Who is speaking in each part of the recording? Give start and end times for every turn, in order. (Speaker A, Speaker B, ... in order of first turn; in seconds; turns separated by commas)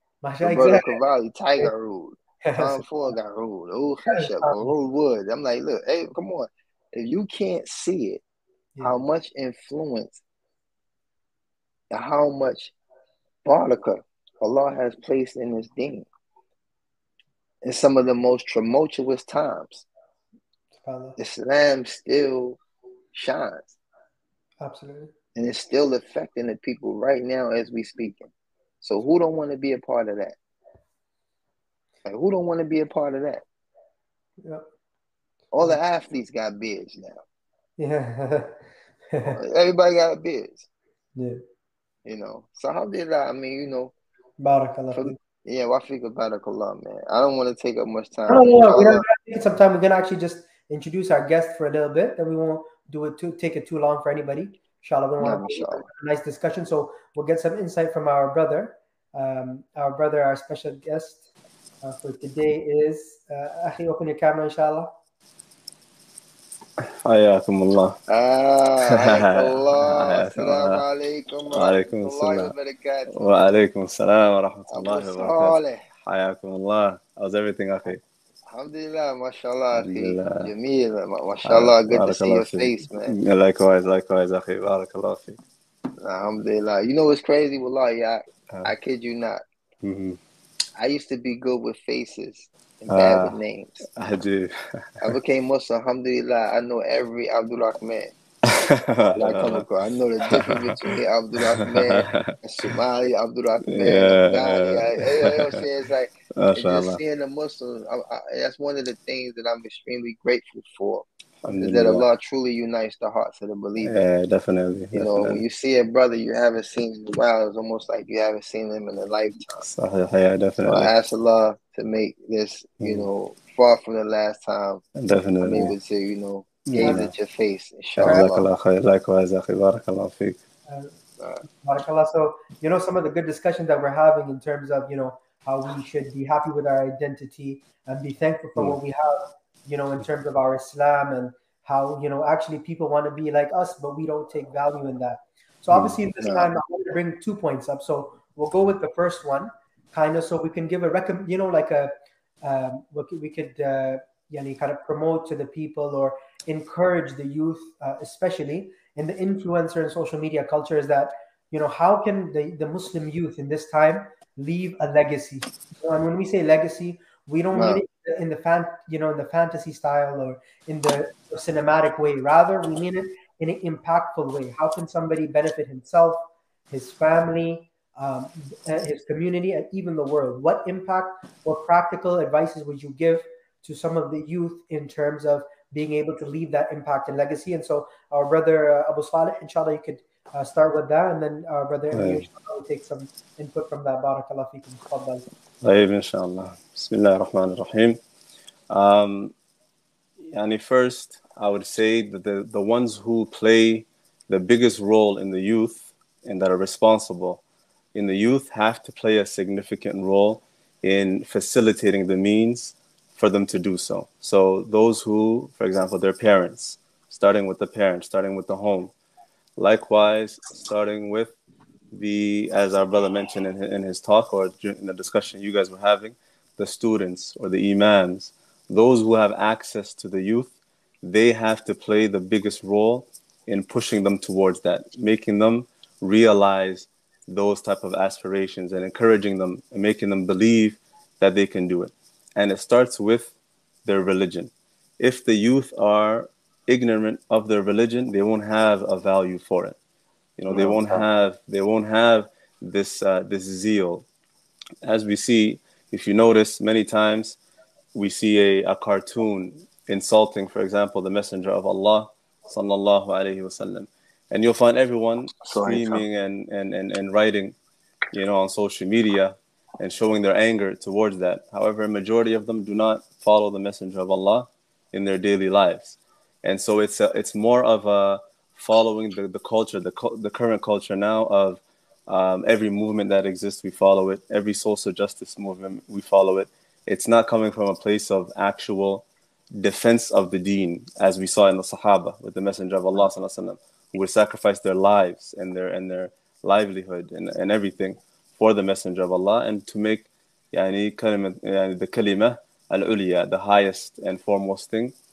Speaker A: 0.2-1.0, Speaker B: 0.4-8.2, Speaker A: 2.4-2.9, Speaker A: 4.1-4.7, Speaker B: 8.8-10.2, Speaker B: 11.9-12.7, Speaker B: 13.4-16.1, Speaker B: 17.6-19.8, Speaker A: 20.8-21.2, Speaker B: 21.2-22.6, Speaker B: 23.1-23.7, Speaker A: 24.6-25.1, Speaker B: 25.3-28.3, Speaker B: 28.8-30.4, Speaker B: 32.0-33.4, Speaker B: 35.5-37.2, Speaker A: 37.8-38.5, Speaker A: 39.1-39.4, Speaker B: 39.2-40.7, Speaker A: 41.1-41.4, Speaker B: 42.0-43.9, Speaker A: 44.4-45.1, Speaker B: 44.9-49.0, Speaker A: 48.3-61.2, Speaker B: 55.2-55.9, Speaker A: 61.8-64.9, Speaker C: 66.8-68.0, Speaker B: 68.1-73.2, Speaker C: 68.8-70.8, Speaker C: 71.5-72.5, Speaker C: 73.1-78.0, Speaker B: 74.7-75.9, Speaker B: 78.5-83.2, Speaker C: 79.7-80.5, Speaker C: 81.4-85.4, Speaker B: 86.0-89.4, Speaker C: 89.8-90.2, Speaker B: 90.8-93.8, Speaker C: 92.9-95.1, Speaker B: 95.0-98.1, Speaker C: 98.4-99.7, Speaker B: 99.1-111.0, Speaker C: 100.2-102.8, Speaker C: 103.6-105.6, Speaker C: 106.3-107.0, Speaker C: 111.4-112.0, Speaker B: 111.6-114.0, Speaker C: 113.8-115.4, Speaker B: 114.9-119.6, Speaker C: 119.6-120.9, Speaker B: 120.6-124.8, Speaker C: 122.8-123.1, Speaker C: 125.0-125.7, Speaker B: 125.4-128.5, Speaker C: 126.7-127.1, Speaker A: 126.8-127.1, Speaker C: 128.0-130.4, Speaker A: 130.7-151.9, Speaker B: 131.2-131.4, Speaker B: 146.2-146.5, Speaker A: 152.4-195.2, Speaker B: 167.5-167.8, Speaker C: 191.9-192.2, Speaker C: 195.6-198.0, Speaker C: 198.7-199.3, Speaker C: 200.3-207.4, Speaker C: 207.9-218.9, Speaker C: 219.6-221.3, Speaker C: 221.9-243.3, Speaker C: 243.8-249.8, Speaker C: 250.4-254.1, Speaker B: 250.5-251.0, Speaker C: 254.8-257.4, Speaker C: 257.9-267.6, Speaker B: 265.4-266.0, Speaker C: 268.1-289.0, Speaker C: 289.6-304.9